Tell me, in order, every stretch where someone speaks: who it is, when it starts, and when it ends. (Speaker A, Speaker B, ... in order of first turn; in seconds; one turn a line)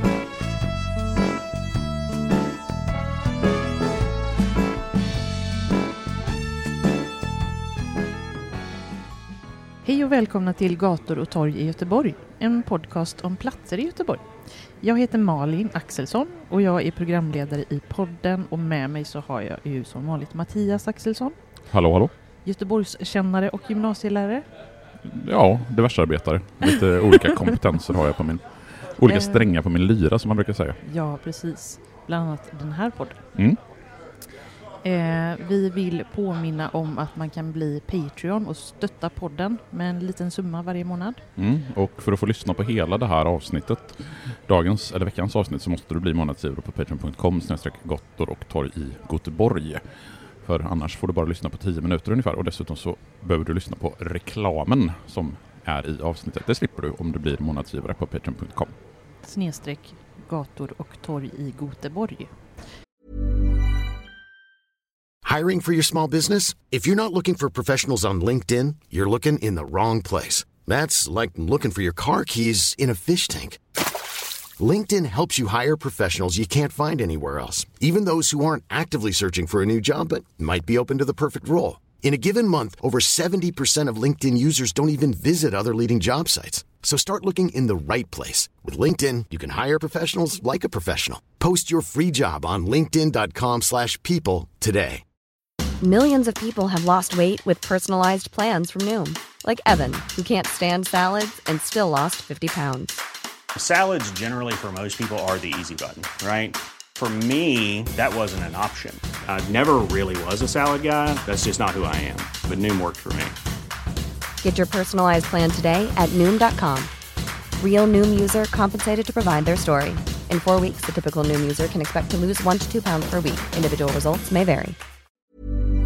Speaker A: 9.8-14.3
Speaker A: 14.9-21.3
Speaker B: 21.7-22.1
Speaker A: 22.4-24.4
Speaker B: 25.0-28.4
Speaker B: 29.0-30.8
Speaker A: 29.1-29.3
Speaker A: 30.9-33.2
Speaker A: 34.8-41.2
Speaker B: 41.4-49.8
Speaker B: 50.4-58.7
Speaker A: 59.3-62.3
Speaker C: 65.2-73.6
Speaker C: 74.6-95.0
Speaker D: 95.8-102.9
Speaker E: 103.5-113.3
Speaker D: 114.4-116.9
Speaker D: 117.6-124.8